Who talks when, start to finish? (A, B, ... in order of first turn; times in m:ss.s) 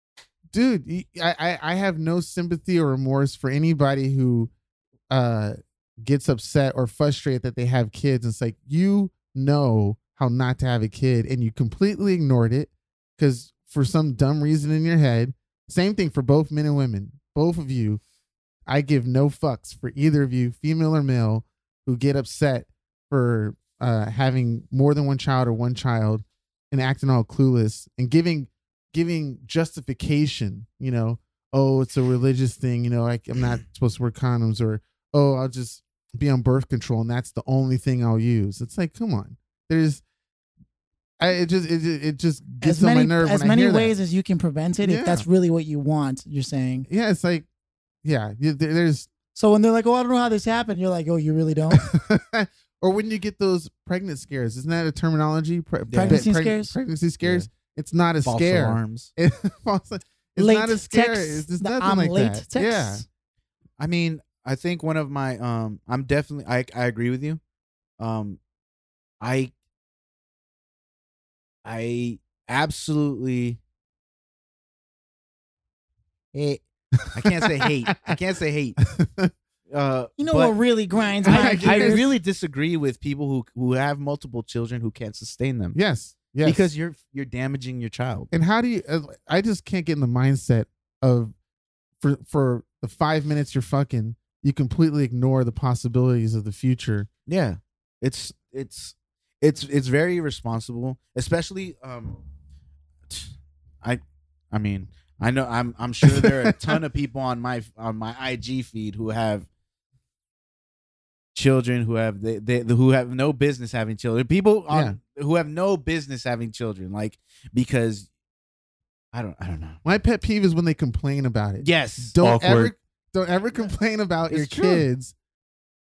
0:00.5-0:04.5 A
0:05.1-0:18.0 A
0:18.7-0:40.0 A
0:41.2-0:43.9 A
0:42.6-0:46.9 B
0:44.8-0:45.3 A
0:46.9-0:47.5 A
0:48.0-0:49.1 A
0:49.4-0:51.9 B
0:51.7-1:03.0 A
0:55.9-0:56.3 C
0:55.9-0:56.8 B
0:57.2-0:57.5 C
0:58.2-0:59.1 C
1:00.4-1:03.0 B
1:03.8-1:07.4 C
1:08.0-1:08.4 C
1:09.2-1:09.5 C
1:11.6-1:13.6 C
1:16.3-1:16.6 C
1:17.0-1:18.2 A
1:17.1-1:18.8 C
1:18.8-1:19.3 A
1:19.7-1:20.6 C
1:20.2-1:22.1 B
1:21.2-1:25.8 C
1:21.2-1:22.0 A
1:25.7-1:26.6 A
1:26.4-1:28.3 C
1:28.3-1:31.3 A
1:32.0-1:37.1 A
1:37.3-1:42.2 C
1:43.1-1:49.5 C
1:51.3-1:58.1 C
1:54.7-1:55.0 A
1:59.1-1:59.8 C
1:59.8-2:05.2 A
2:01.6-2:02.7 C
2:04.3-2:04.9 C